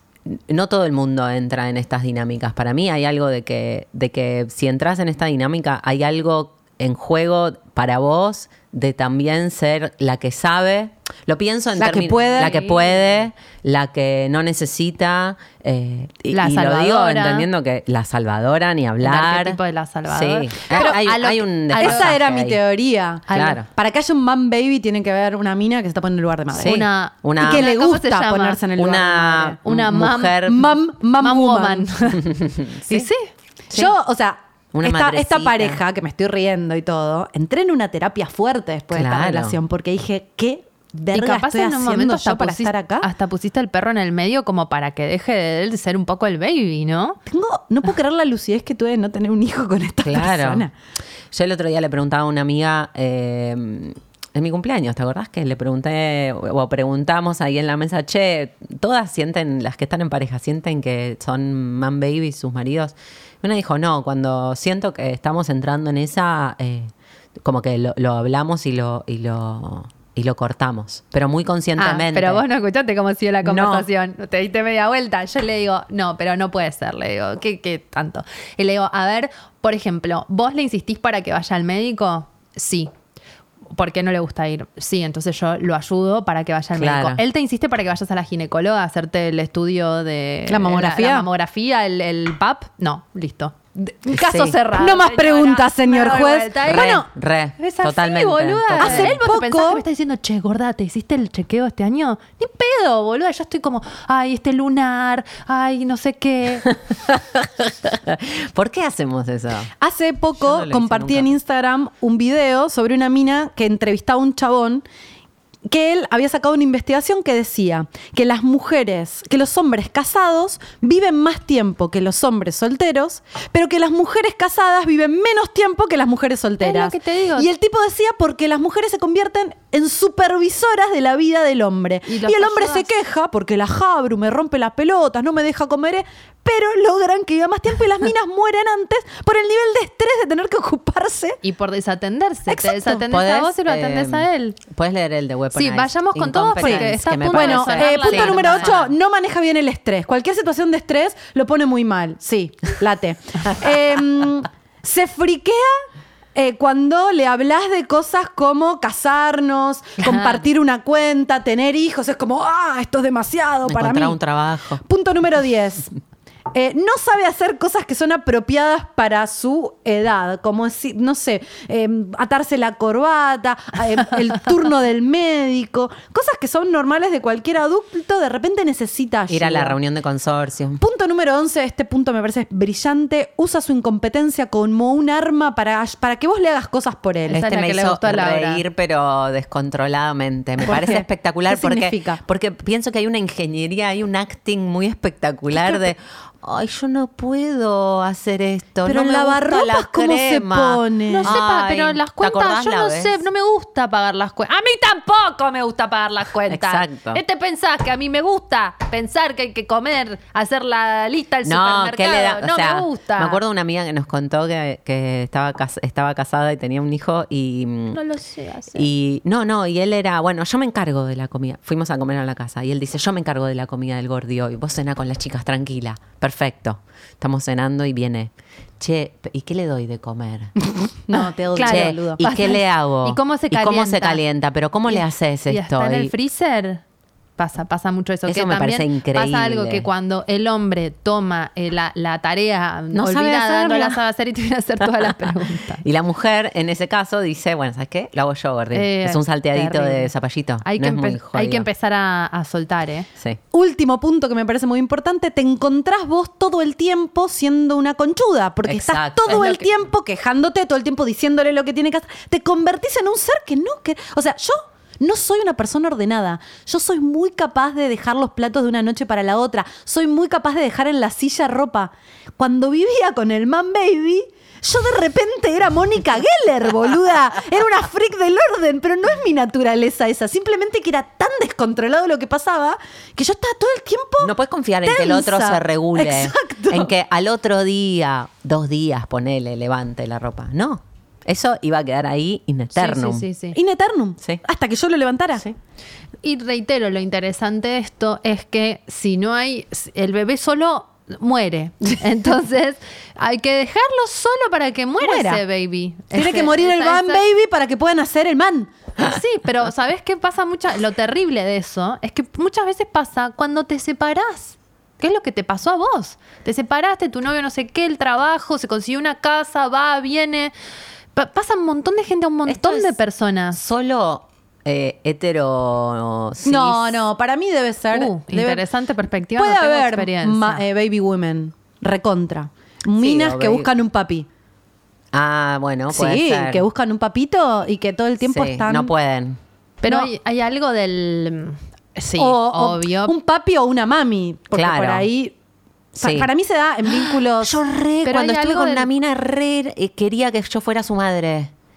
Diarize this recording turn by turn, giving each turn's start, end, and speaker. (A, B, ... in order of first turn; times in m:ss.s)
0:00.2-0:22.6 A
0:11.7-0:12.5 B
0:12.2-0:13.1 C
0:16.3-0:17.5 C
0:19.0-0:22.1 C
0:20.7-0:21.0 B
0:21.8-0:26.8 B
0:23.3-0:23.5 C
0:23.3-0:23.7 A
0:26.5-0:28.6 C
0:26.6-0:27.7 A
0:27.4-0:29.6 B
0:28.7-0:30.7 A
0:29.6-0:30.6 C
0:30.4-0:31.9 B
0:31.2-0:32.3 C
0:32.2-0:32.9 A
0:32.8-0:33.3 C
0:33.7-0:43.1 B
0:34.7-0:35.8 A
0:38.9-0:39.6 A
0:41.1-0:47.2 C
0:47.3-0:50.7 B
0:50.0-0:50.6 A
0:51.3-1:12.4 A
1:11.8-1:22.9 C
1:13.4-1:13.9 A
1:23.7-1:37.0 C
1:26.8-1:27.2 A
1:30.5-1:31.3 B
1:34.2-1:34.6 A
1:34.7-1:37.1 B
1:36.6-1:39.2 A
1:37.6-1:46.7 C
1:38.8-1:39.8 B
1:47.1-1:49.7 A
1:49.8-1:54.8 B
1:50.4-1:51.3 A
1:55.7-2:21.4 B
2:06.6-2:07.5 C
2:12.0-2:12.9 C
2:21.4-2:24.6 C
2:22.5-2:23.0 B
2:23.1-2:28.7 A
2:25.5-2:28.9 C
2:26.6-2:35.8 B
2:36.3-2:44.2 B
2:40.0-2:40.4 C
2:43.6-2:44.8 A
2:44.8-2:45.9 B
2:46.5-2:59.8 B
2:59.3-3:00.8 A
3:00.8-3:07.4 B
3:07.3-3:08.6 C
3:07.3-3:23.2 A
3:10.6-3:12.2 B
3:18.8-3:21.4 B
3:21.1-3:33.4 C
3:26.5-3:27.2 A
3:31.4-3:38.0 A
3:37.9-3:38.9 C
3:38.7-3:50.6 A
3:51.1-3:52.2 B
3:51.5-3:54.2 C
3:51.6-3:56.1 A
3:54.9-3:56.8 C
3:57.4-4:05.8 C
3:58.3-3:59.8 A
4:02.9-4:04.0 A
4:05.8-4:11.7 A
4:08.7-4:10.1 C
4:10.6-4:13.1 C
4:13.5-4:46.9 B
4:18.6-4:19.4 A
4:19.2-4:19.6 C
4:44.2-4:53.2 A
4:52.8-4:53.6 C
4:53.5-4:55.5 B
4:56.2-5:07.2 C
5:05.0-5:05.4 B
5:06.1-5:08.7 B
5:09.0-5:20.5 C
5:21.1-5:23.6 C
5:22.5-5:22.9 A
5:23.5-5:27.0 A
5:26.4-5:28.6 B
5:27.9-5:30.6 C
5:29.4-5:34.3 B
5:33.0-5:33.7 A
5:35.1-5:36.6 A
5:35.9-5:38.9 B
5:38.2-5:39.4 A
5:39.8-5:43.1 C
5:39.8-5:40.1 B
5:42.1-5:45.3 B
5:44.5-5:45.1 A
5:45.9-5:47.5 B
5:46.0-5:46.3 A
5:46.9-5:51.5 A
5:48.0-5:48.9 C